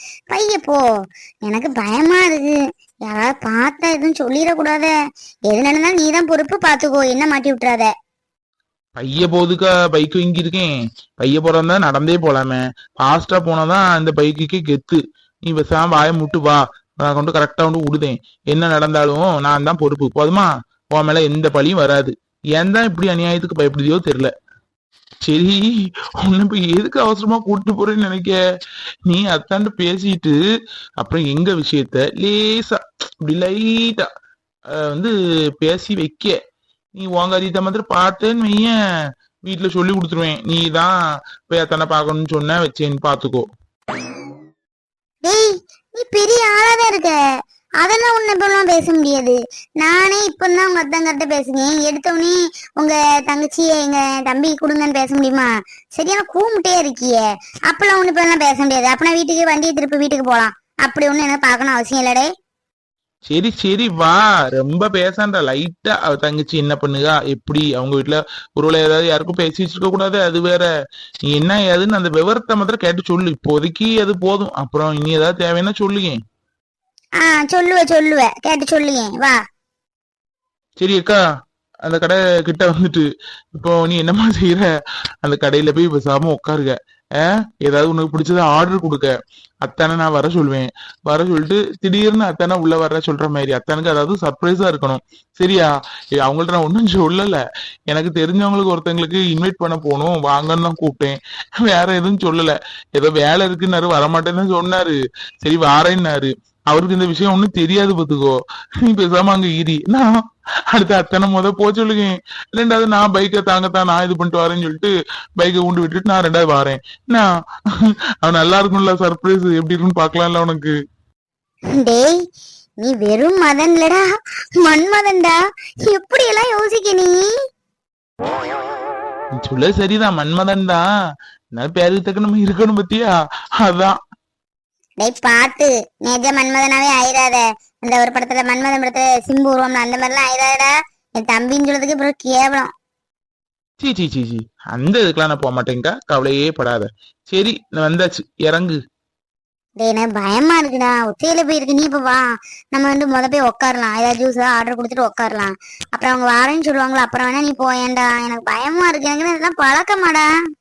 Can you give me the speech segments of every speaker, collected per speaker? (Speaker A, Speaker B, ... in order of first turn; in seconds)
Speaker A: 0.3-0.8, 1.5-4.9, 5.5-7.9, 45.2-47.2, 47.8-62.3, 77.2-79.4, 121.8-122.2, 122.8-124.0, 124.6-127.3, 135.0-142.7, 149.8-160.3
Speaker B: 9.0-24.3, 25.2-28.4, 29.1-30.4, 31.0-34.1, 34.7-36.4, 37.0-38.7, 39.5-41.0, 41.5-43.5, 63.3-70.7, 71.3-76.2, 80.8-81.2, 81.9-84.7, 85.2-110.1, 110.7-117.3, 117.8-120.7, 129.4-130.8, 131.6-134.0, 143.8-148.8